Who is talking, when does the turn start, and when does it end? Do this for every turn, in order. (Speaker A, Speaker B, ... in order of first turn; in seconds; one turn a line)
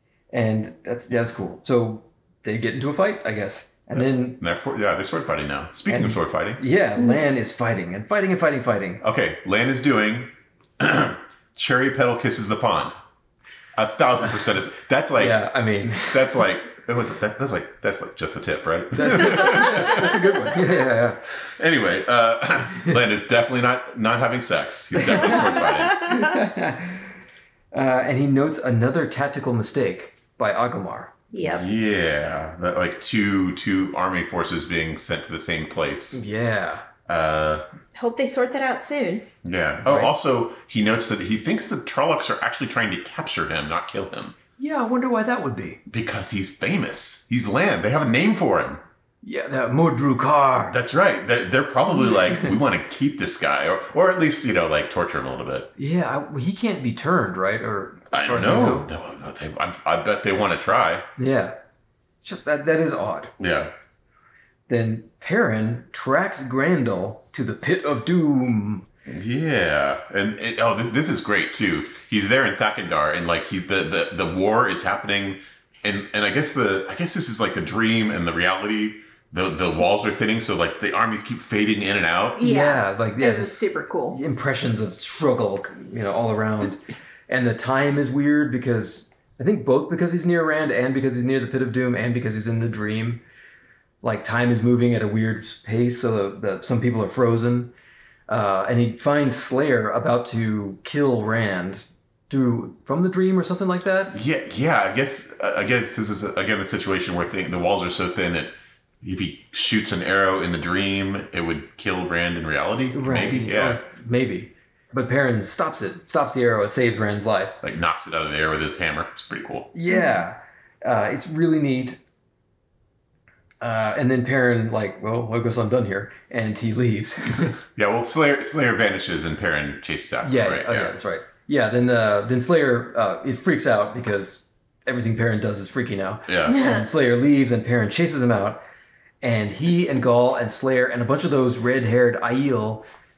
Speaker A: 0.3-4.4
Speaker B: 3.9-6.6
Speaker A: 5.9-9.0
Speaker C: 7.0-7.2
Speaker B: 9.0-12.9
Speaker B: 13.8-15.4
Speaker A: 15.2-16.4
Speaker B: 16.1-20.6
Speaker A: 18.9-21.2
Speaker B: 21.4-26.1
Speaker A: 24.9-25.5
Speaker C: 25.6-26.3
Speaker A: 26.1-27.0
Speaker A: 27.7-31.1
Speaker C: 31.3-31.6
Speaker B: 31.4-36.2
Speaker A: 36.1-36.8
Speaker B: 37.1-37.6
Speaker C: 38.0-39.2
Speaker B: 39.4-44.4
Speaker A: 39.8-40.1
Speaker A: 44.6-45.8
Speaker B: 45.9-48.8
Speaker A: 49.2-50.8
Speaker B: 50.7-55.7
Speaker A: 55.8-58.9
Speaker B: 58.1-61.0
Speaker A: 61.2-61.5
Speaker A: 62.2-63.3
Speaker B: 63.4-63.7
Speaker A: 64.7-68.8
Speaker B: 69.1-82.4
Speaker C: 82.4-84.2
Speaker A: 82.4-83.6
Speaker A: 84.1-93.2
Speaker A: 94.0-97.7
Speaker A: 98.3-104.2
Speaker B: 104.1-113.8
Speaker A: 112.9-117.6
Speaker B: 117.6-119.7
Speaker A: 119.7-122.0
Speaker A: 123.6-127.6
Speaker B: 127.7-130.9
Speaker A: 130.2-138.6
Speaker B: 136.3-136.6
Speaker C: 136.4-136.8
Speaker A: 139.2-142.8